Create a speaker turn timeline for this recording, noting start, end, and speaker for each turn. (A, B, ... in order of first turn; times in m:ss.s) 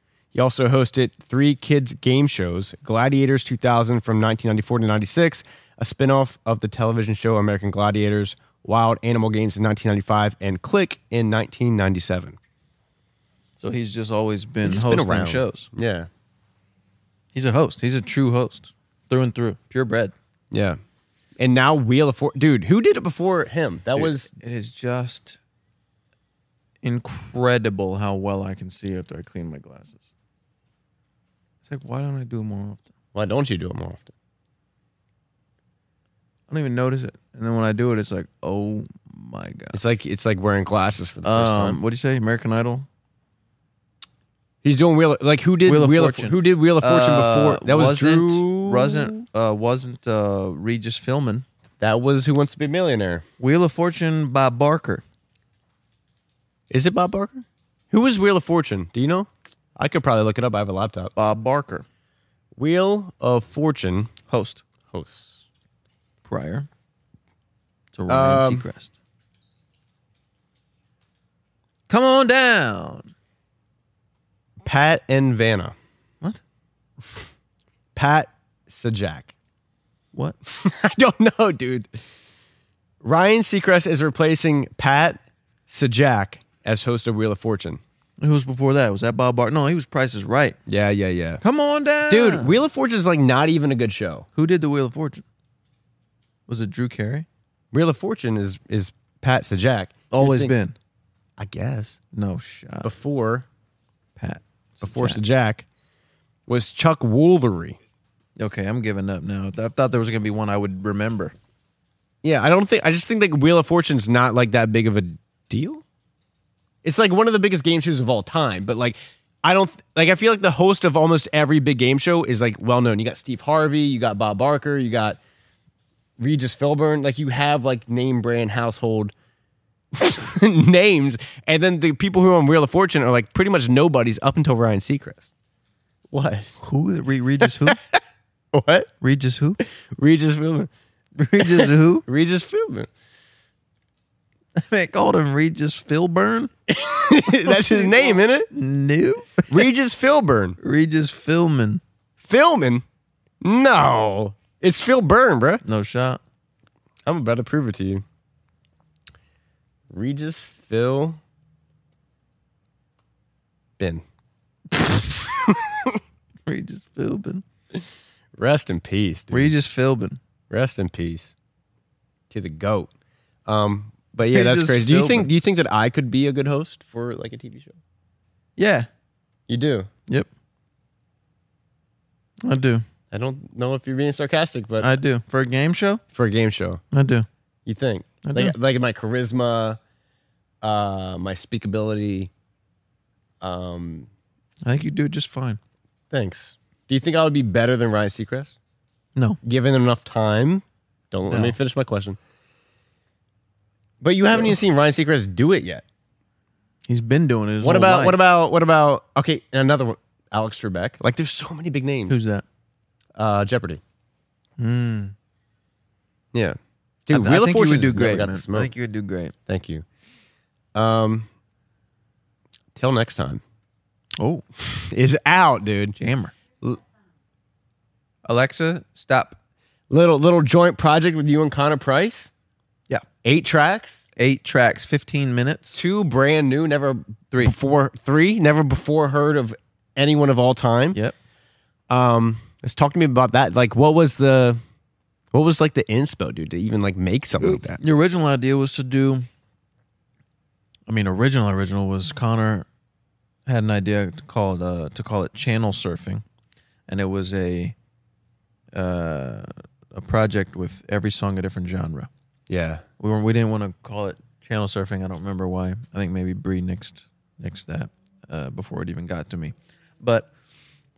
0:00.3-0:12.4 A
0:13.6-0:15.7 B
0:14.6-0:16.1 A
0:17.3-0:20.1 B
0:20.5-0:20.8 A
0:21.4-0:24.3 A
0:24.0-0:25.4 B
0:26.8-0:30.0 B
0:31.7-0:32.8 B
0:33.1-0:34.1 A
0:36.5-0:39.8 B
0:39.7-0:41.8 A
0:41.2-0:42.9 B
0:44.6-0:49.2 A
0:45.7-0:51.5 B
0:51.8-0:53.2 A
0:53.4-0:55.0 B
0:56.7-1:01.1 A
1:01.2-1:01.8 B
1:02.6-1:04.2 A
1:04.3-1:04.6 B
1:04.9-1:05.4 A
1:06.2-1:06.7 B
1:07.9-1:08.9 B
1:08.1-1:08.7 A
1:11.9-1:13.1 B
1:14.6-1:15.8 A
1:18.0-1:19.3 A
1:20.5-1:21.9 A
1:23.0-1:27.8 A
1:28.2-1:30.6 B
1:30.7-1:31.4 A
1:31.4-1:32.6 B
1:32.1-1:34.3 A
1:34.4-1:35.2 B
1:36.5-1:37.3 B
1:37.7-1:40.5 A
1:40.1-1:40.8 B
1:41.4-1:42.0 A
1:42.1-1:42.9 B
1:42.8-1:43.5 A
1:44.2-1:45.2 B
1:44.8-1:45.7 A
1:46.5-1:47.8 A
1:48.4-1:51.4 B
1:52.2-1:55.8 A
1:56.8-2:05.2 A
2:06.2-2:09.1 A
2:09.9-2:15.3 A
2:16.1-2:16.6 A
2:16.6-2:17.8 B
2:17.7-2:18.0 A
2:18.5-2:18.9 A
2:19.0-2:19.6 B
2:20.0-2:20.7 A
2:21.2-2:22.0 B
2:21.4-2:22.9 A
2:24.6-2:26.5 B
2:26.7-2:28.5 A
2:27.2-2:29.7 B
2:29.5-2:30.6 A
2:30.6-2:31.8 B
2:32.2-2:32.8 A
2:33.4-2:35.6 A
2:35.6-2:36.2 B
2:37.1-2:38.0 A
2:39.9-2:41.2 A
2:43.8-2:44.0 A
2:44.7-2:45.0 B
2:45.5-2:46.0 A
2:46.5-2:47.4 B
2:48.4-2:49.5 A
2:49.3-2:50.2 B
2:50.5-2:51.3 A
2:52.3-2:52.9 A
2:53.5-2:57.8 A
2:54.3-2:55.3 B
2:58.6-2:58.9 B
2:59.5-2:59.9 A
3:02.4-3:02.8 B
3:03.1-3:04.9 A
3:04.8-3:06.0 B
3:06.1-3:06.8 A
3:06.9-3:07.3 B
3:07.7-3:09.8 A
3:08.2-3:08.6 B
3:10.6-3:12.3 A
3:13.4-3:14.1 A
3:14.6-3:15.6 B
3:16.1-3:18.6 A
3:19.4-3:22.2 A
3:21.3-3:21.6 B
3:24.0-3:25.8 A
3:26.9-3:28.2 B
3:27.6-3:32.2 A
3:32.1-3:32.4 B
3:33.2-3:33.8 A
3:34.6-3:35.1 B
3:36.3-3:38.7 A
3:37.1-3:39.3 B
3:39.5-3:39.8 A
3:40.8-3:41.3 A
3:42.8-3:43.4 A
3:44.2-3:44.4 B
3:44.6-3:46.0 A
3:46.0-3:46.3 B
3:48.3-3:49.4 B
3:49.9-3:52.3 A
3:53.2-3:54.0 A
3:54.2-3:55.8 B
3:55.7-4:01.0 A
4:01.9-4:04.6 A
4:05.3-4:07.8 A
4:07.4-4:09.3 B
4:10.9-4:12.7 B
4:13.5-4:16.2 B
4:16.9-4:17.8 B
4:18.7-4:22.1 B
4:22.5-4:22.8 A
4:23.0-4:30.3 B